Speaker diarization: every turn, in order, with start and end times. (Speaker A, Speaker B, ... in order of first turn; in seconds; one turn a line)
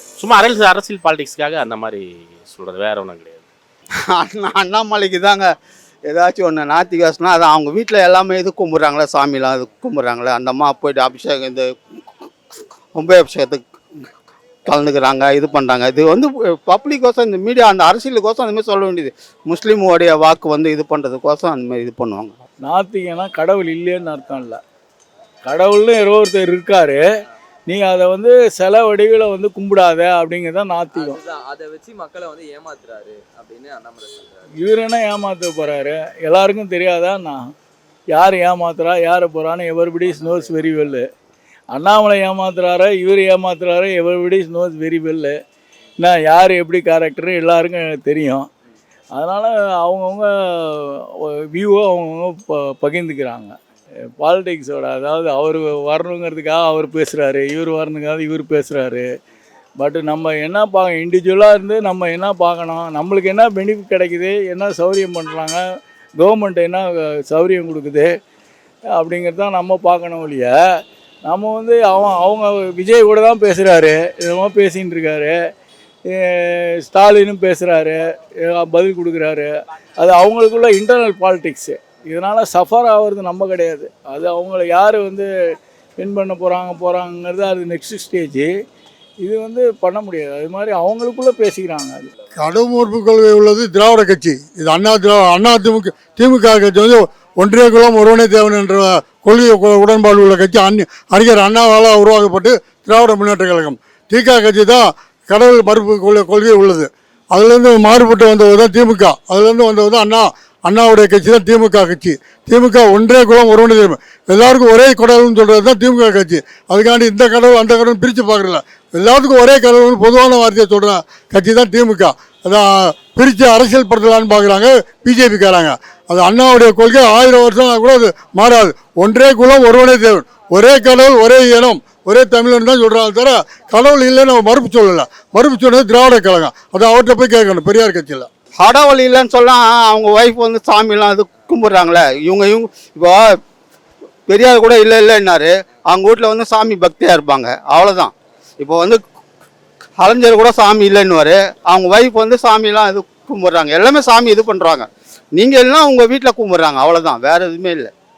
Speaker A: 0.2-3.5
Speaker B: 4.1-5.5
Speaker B: 6.0-11.7
Speaker B: 12.9-14.1
Speaker B: 14.7-22.3
Speaker C: 22.6-24.6
Speaker C: 25.4-27.0
Speaker C: 27.7-31.2
Speaker D: 30.9-34.4
Speaker C: 34.6-37.4
Speaker C: 38.1-41.1
Speaker C: 41.7-45.4
Speaker C: 46.0-48.5
Speaker C: 49.1-53.5
Speaker C: 54.2-59.1
Speaker C: 59.8-65.6
Speaker C: 66.2-68.1
Speaker C: 69.0-70.5
Speaker C: 71.2-75.4
Speaker C: 76.1-85.3
Speaker C: 86.0-88.5
Speaker C: 89.2-92.1
Speaker E: 92.3-138.3
Speaker B: 138.6-143.4
Speaker B: 144.3-149.0
Speaker B: 150.0-157.9